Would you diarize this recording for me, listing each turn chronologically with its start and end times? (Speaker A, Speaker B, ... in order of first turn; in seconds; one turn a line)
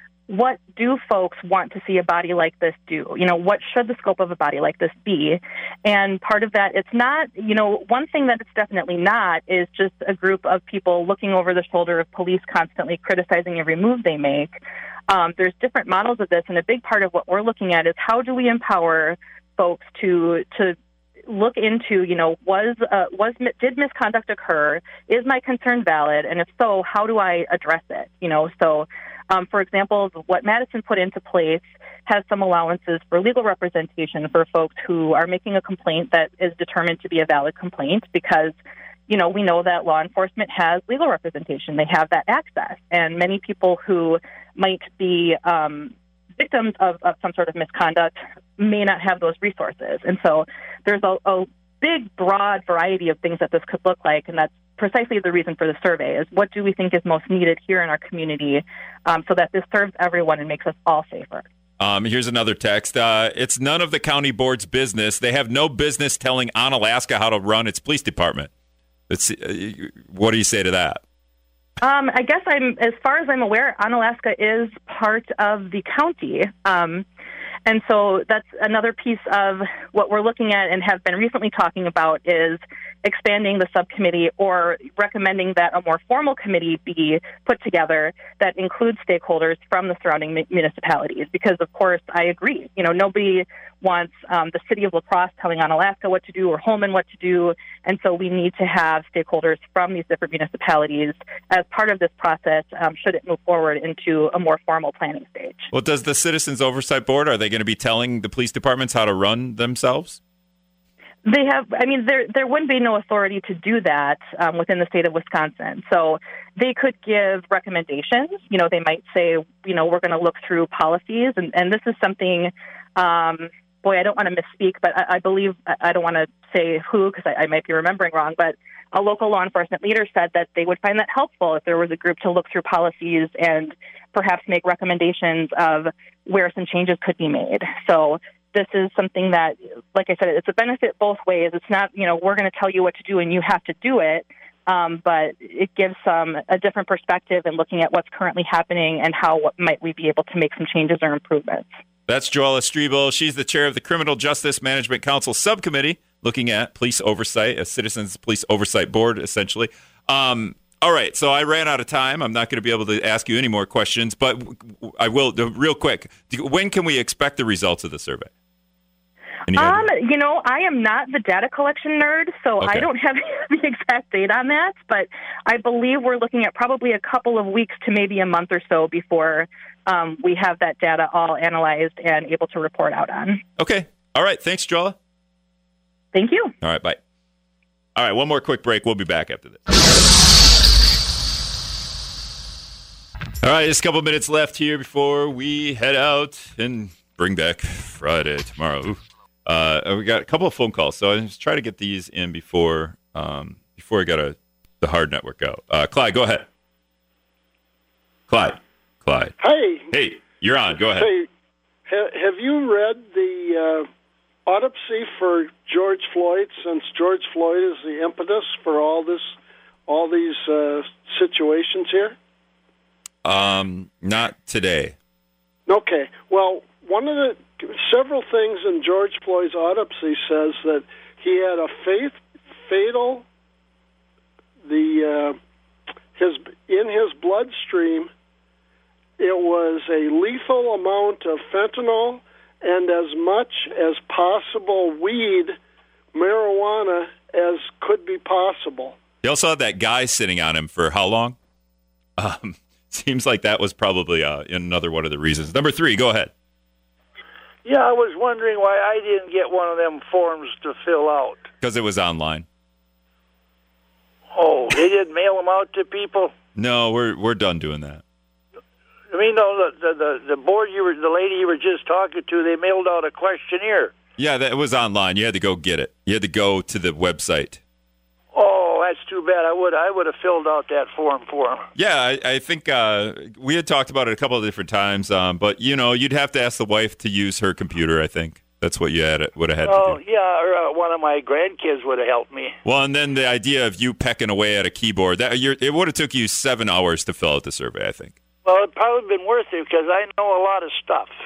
Speaker A: 0.3-14.5
Speaker A: 15.1-20.8
Speaker A: 21.3-38.5
Speaker A: 39.1-61.4
Speaker B: 61.8-68.5
Speaker B: 69.1-71.0
Speaker A: 71.8-77.0
Speaker A: 77.7-105.7
Speaker B: 105.7-110.2
Speaker A: 111.2-151.7
Speaker B: 152.1-168.3
Speaker B: 169.5-169.9
Speaker A: 169.5-183.4
Speaker B: 172.6-172.9
Speaker B: 183.6-185.0
Speaker A: 186.1-186.5
Speaker B: 186.6-187.0
Speaker B: 187.9-189.6
Speaker B: 193.4-206.5
Speaker B: 208.3-209.3
Speaker C: 209.4-209.9
Speaker B: 209.9-211.1
Speaker C: 210.9-211.3
Speaker C: 211.9-213.9
Speaker C: 214.4-219.3
Speaker C: 219.9-222.2
Speaker B: 223.2-224.9
Speaker C: 225.7-233.2
Speaker C: 234.6-235.4
Speaker C: 236.2-238.1
Speaker C: 239.2-245.6
Speaker C: 246.1-248.9
Speaker B: 249.2-251.4
Speaker B: 252.2-256.3
Speaker D: 257.6-261.4
Speaker B: 261.6-262.5
Speaker D: 264.3-266.3
Speaker B: 266.6-268.0
Speaker D: 269.1-273.9
Speaker B: 274.2-277.6
Speaker D: 278.3-281.7
Speaker B: 281.7-290.0
Speaker D: 289.6-292.5
Speaker B: 292.6-298.1
Speaker D: 298.4-301.1